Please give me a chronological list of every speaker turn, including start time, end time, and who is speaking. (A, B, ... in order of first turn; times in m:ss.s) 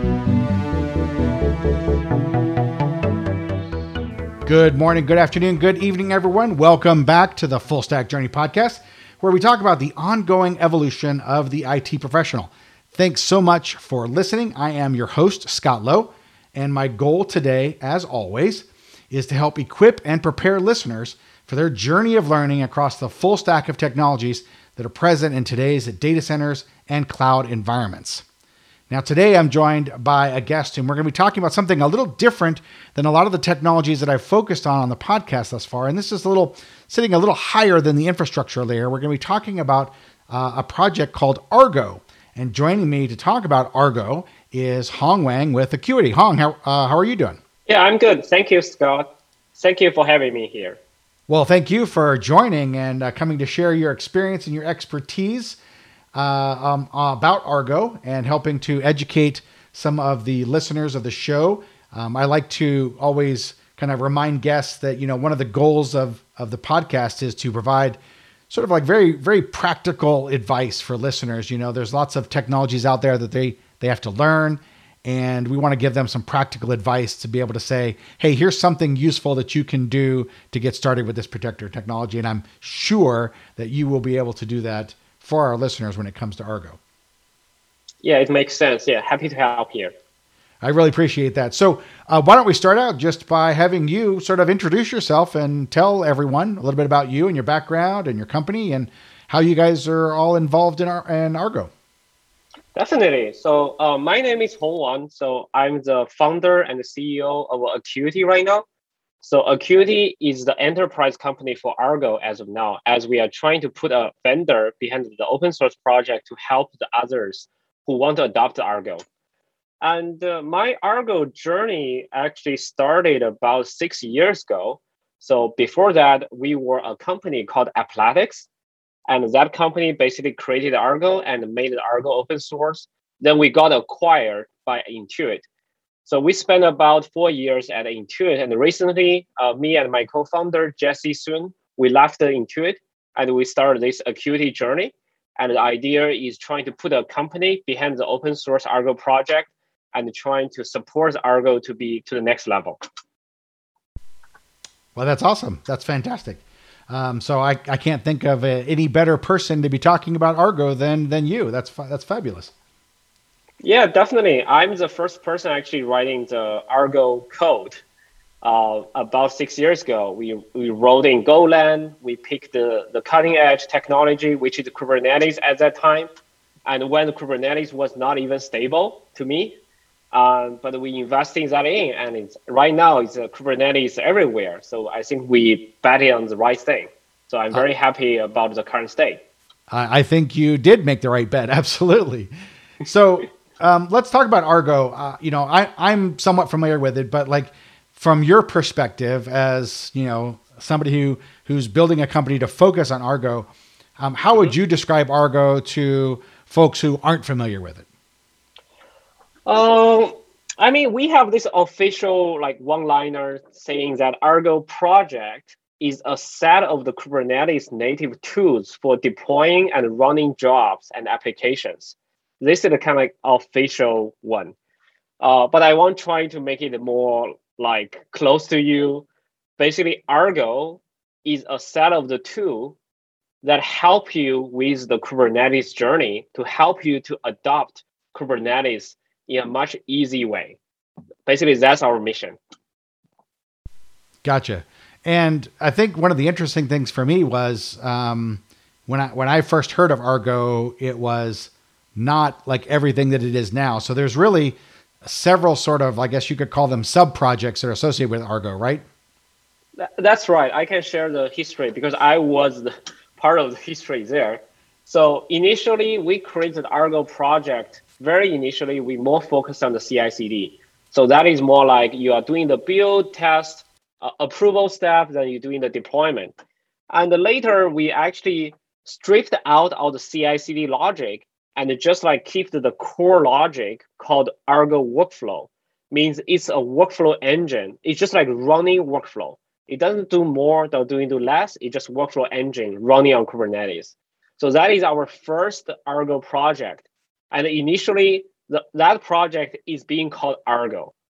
0:04.4-0:28.2 A
0:28.9-0:47.4 A
0:47.7-0:50.8 B
0:51.3-0:55.6 A
0:56.1-1:08.0 A
1:08.5-1:26.8 A
1:28.0-1:29.9 B
1:30.6-1:41.7 A
1:42.7-1:48.6 B
1:49.2-1:59.0 B
1:59.8-2:08.5 B
2:09.1-2:15.4 B
2:16.0-2:32.8 B
2:35.0-2:42.5 A
2:43.6-2:47.8 B
2:48.4-2:56.1 B
2:56.6-2:59.5 B
3:00.1-3:09.2 B
3:09.7-3:12.3 A
3:12.8-3:27.8 A
3:29.4-3:44.5 B
3:45.2-3:49.0 B
3:49.6-3:52.8 B
3:53.4-4:00.6 B
4:01.2-4:02.4 B
4:04.2-4:18.8 A
4:19.8-4:36.3 B
4:36.9-5:00.9 B